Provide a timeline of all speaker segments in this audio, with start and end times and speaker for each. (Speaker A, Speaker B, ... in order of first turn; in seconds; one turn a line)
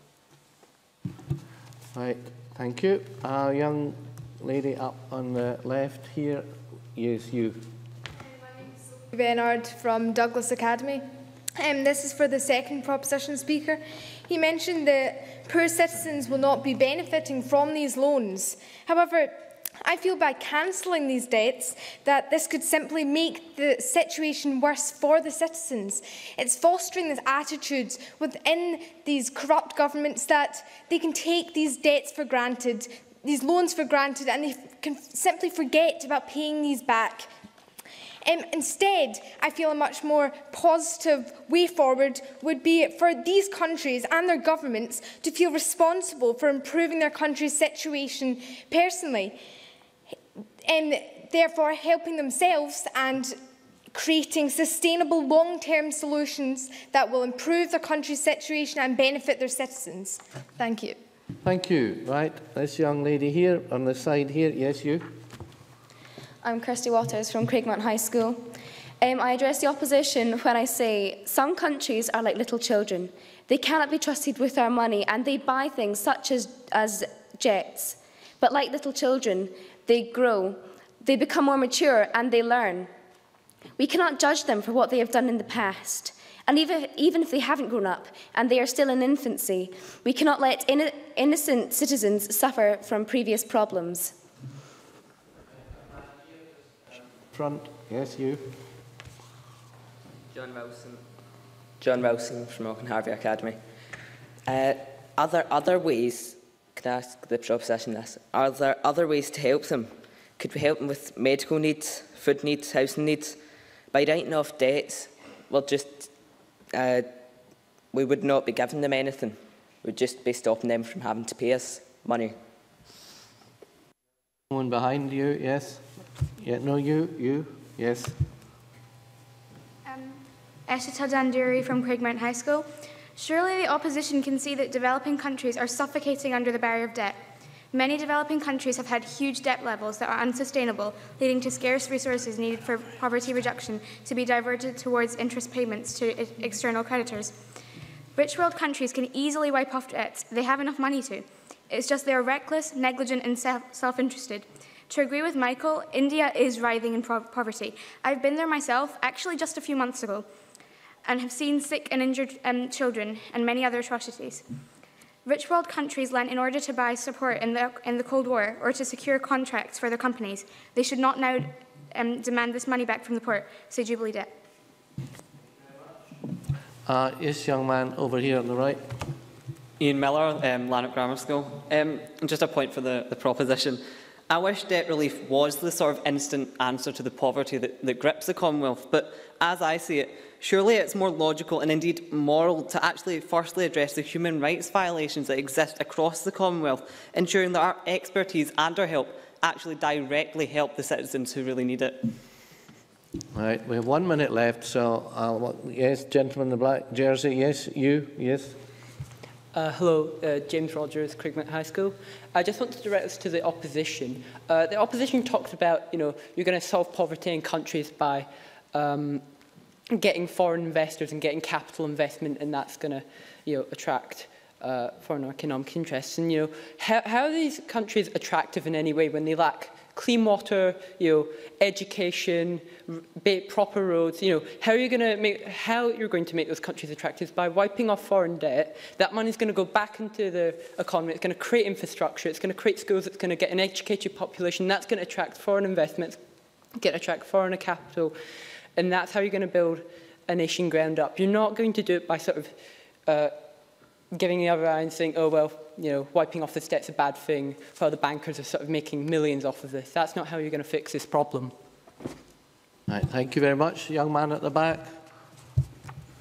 Speaker A: 1.9-7.7
Speaker B: 9.0-37.3
Speaker B: 38.2-49.4
Speaker B: 50.6-53.4
Speaker B: 53.9-61.0
Speaker A: 61.4-65.2
Speaker C: 66.4-68.4
Speaker C: 69.0-82.9
Speaker C: 83.8-94.1
Speaker A: 97.3-98.6
Speaker D: 100.3-100.9
Speaker D: 101.8-103.6
Speaker D: 104.5-113.4
Speaker D: 113.9-116.1
Speaker D: 116.7-117.1
Speaker D: 117.9-122.4
Speaker A: 124.5-125.8
Speaker A: 126.4-128.2
Speaker E: 129.8-147.4
Speaker E: 148.2-160.3
Speaker E: 161.0-164.4
Speaker E: 165.2-174.3
Speaker A: 176.8-178.8
Speaker F: 179.8-202.1
Speaker A: 203.3-208.6
Speaker G: 209.5-219.2
Speaker G: 219.9-246.2
Speaker G: 246.8-248.2
Speaker G: 248.8-252.5
Speaker G: 253.1-253.3
Speaker G: 254.1-261.5
Speaker A: 262.9-264.9